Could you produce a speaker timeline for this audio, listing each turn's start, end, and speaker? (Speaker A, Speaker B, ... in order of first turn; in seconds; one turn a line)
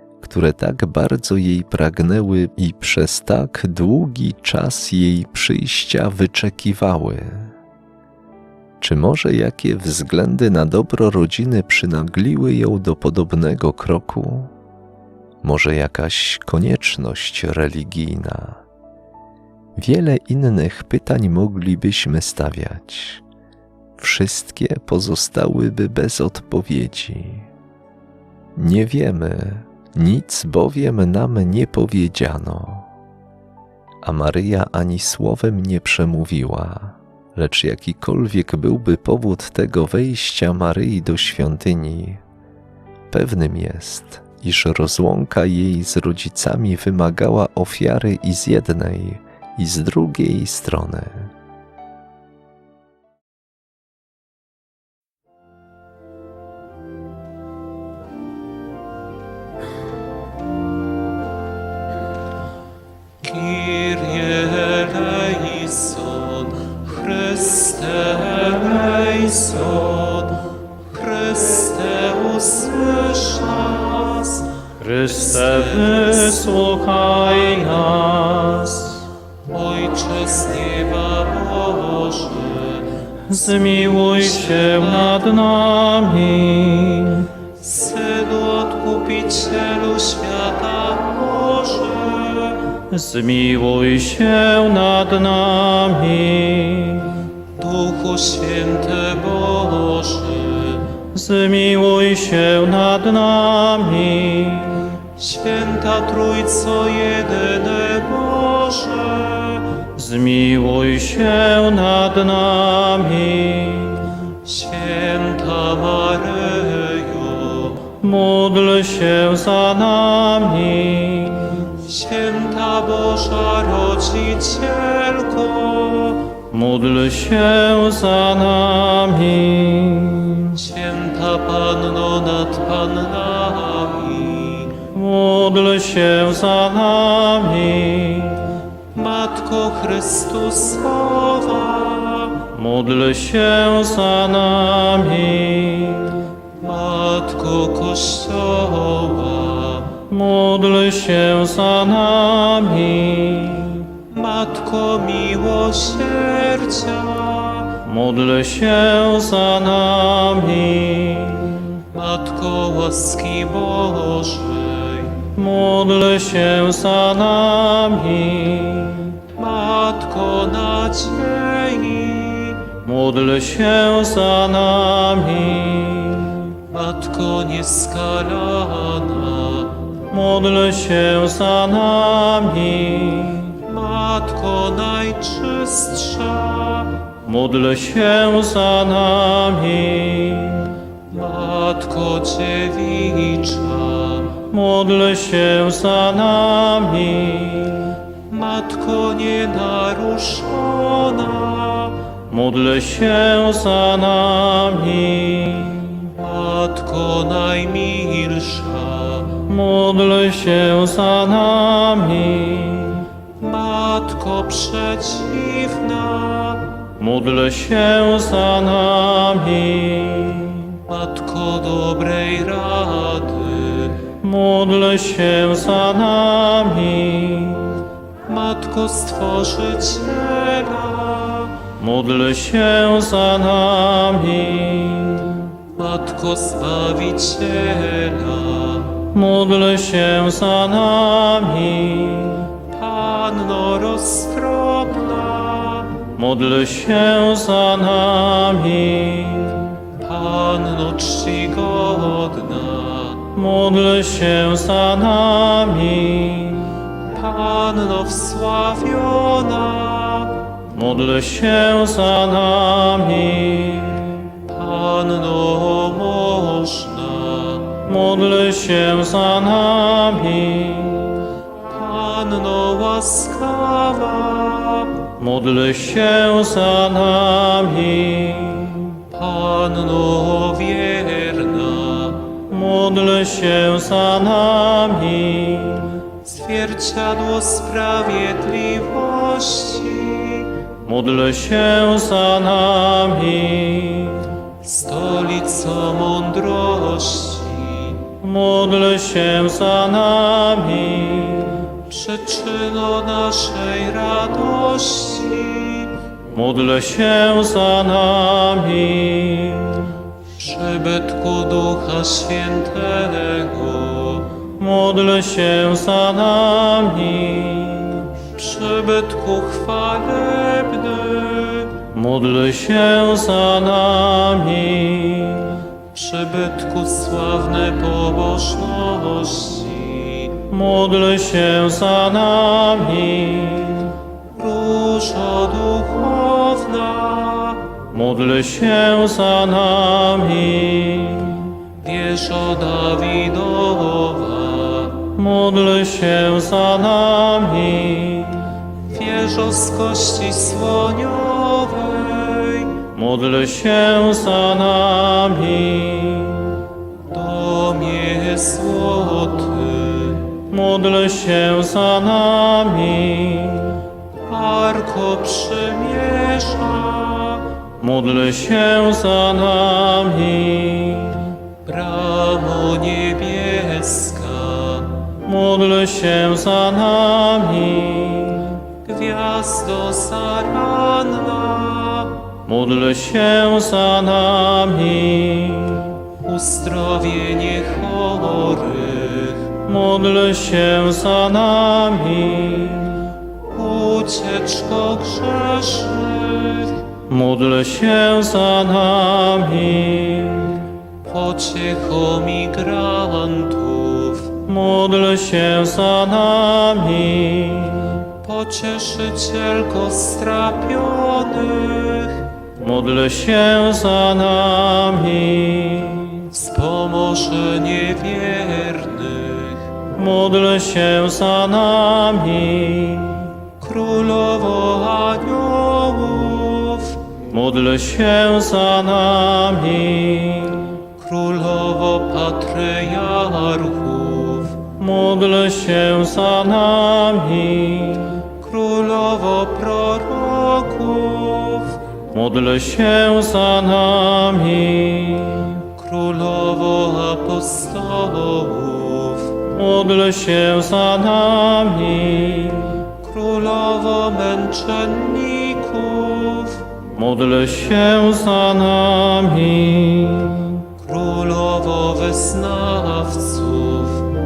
Speaker A: 0.2-7.5
Speaker A: 8.8-14.5
Speaker A: 15.4-18.6
Speaker A: 19.8-23.2
Speaker A: 24.0-27.5
Speaker A: 28.6-32.9
Speaker A: 34.0-42.2
Speaker A: 43.1-51.3
Speaker B: 63.2-74.5
Speaker C: 74.8-79.0
Speaker B: 75.1-76.4
Speaker B: 79.5-82.9
Speaker C: 83.3-87.3
Speaker B: 84.2-85.2
Speaker B: 87.6-92.7
Speaker C: 92.9-97.3
Speaker B: 97.5-100.9
Speaker C: 101.1-105.0
Speaker B: 105.1-109.8
Speaker C: 109.9-114.2
Speaker B: 114.4-117.9
Speaker C: 117.9-121.7
Speaker B: 121.8-126.4
Speaker C: 126.5-130.6
Speaker B: 130.5-134.8
Speaker C: 134.9-138.5
Speaker B: 138.9-142.5
Speaker C: 142.5-146.3
Speaker B: 146.6-150.0
Speaker C: 150.0-154.0
Speaker B: 154.0-157.8
Speaker C: 157.8-161.8
Speaker B: 161.9-165.3
Speaker C: 165.3-169.3
Speaker B: 169.3-172.7
Speaker C: 172.7-176.6
Speaker B: 176.6-179.8
Speaker C: 180.1-183.6
Speaker B: 183.6-187.1
Speaker C: 187.2-190.8
Speaker B: 191.1-194.4
Speaker C: 194.4-198.0
Speaker B: 198.3-202.1
Speaker C: 202.3-206.1
Speaker B: 206.1-209.4
Speaker C: 209.4-213.1
Speaker B: 213.4-216.8
Speaker C: 216.9-220.8
Speaker B: 220.8-224.1
Speaker C: 224.1-227.8
Speaker B: 228.2-231.6
Speaker C: 231.8-235.5
Speaker B: 235.7-239.0
Speaker C: 239.1-242.6
Speaker B: 242.6-246.0
Speaker C: 246.1-249.9
Speaker B: 249.9-253.3
Speaker C: 253.3-256.8
Speaker B: 257.0-260.5
Speaker C: 260.6-264.4
Speaker B: 264.4-267.8
Speaker C: 267.8-271.3
Speaker B: 271.6-275.1
Speaker C: 275.1-279.0
Speaker B: 279.1-282.3
Speaker C: 282.4-286.1
Speaker B: 286.2-290.6
Speaker C: 290.8-294.3
Speaker B: 294.6-298.1
Speaker C: 298.2-301.8
Speaker B: 301.8-306.0
Speaker C: 306.2-310.0
Speaker B: 310.3-314.3
Speaker C: 314.6-318.2
Speaker B: 318.2-321.8
Speaker C: 321.8-325.6
Speaker B: 325.9-330.4
Speaker C: 330.4-333.9
Speaker B: 334.3-337.8
Speaker C: 337.8-341.6
Speaker B: 341.7-345.0
Speaker C: 345.1-348.5
Speaker B: 348.8-352.9
Speaker C: 352.9-356.6
Speaker B: 357.1-360.3
Speaker C: 360.4-363.8
Speaker B: 364.2-367.6
Speaker C: 367.8-371.4
Speaker B: 371.6-375.1
Speaker C: 375.2-378.7
Speaker B: 378.8-382.3
Speaker C: 382.4-386.1
Speaker B: 386.1-389.6
Speaker C: 389.6-393.1
Speaker B: 393.4-396.8
Speaker C: 397.1-400.7
Speaker B: 401.0-404.4
Speaker C: 404.4-408.1
Speaker B: 408.1-412.3
Speaker C: 412.6-416.3
Speaker B: 416.3-419.7
Speaker C: 419.9-423.4
Speaker B: 423.6-427.1
Speaker C: 427.2-430.9
Speaker B: 430.9-434.7
Speaker C: 434.7-438.3
Speaker B: 438.3-441.8
Speaker C: 442.1-445.7
Speaker B: 445.7-449.4
Speaker C: 449.5-452.9
Speaker B: 452.9-456.7
Speaker C: 456.8-460.7
Speaker B: 460.8-464.1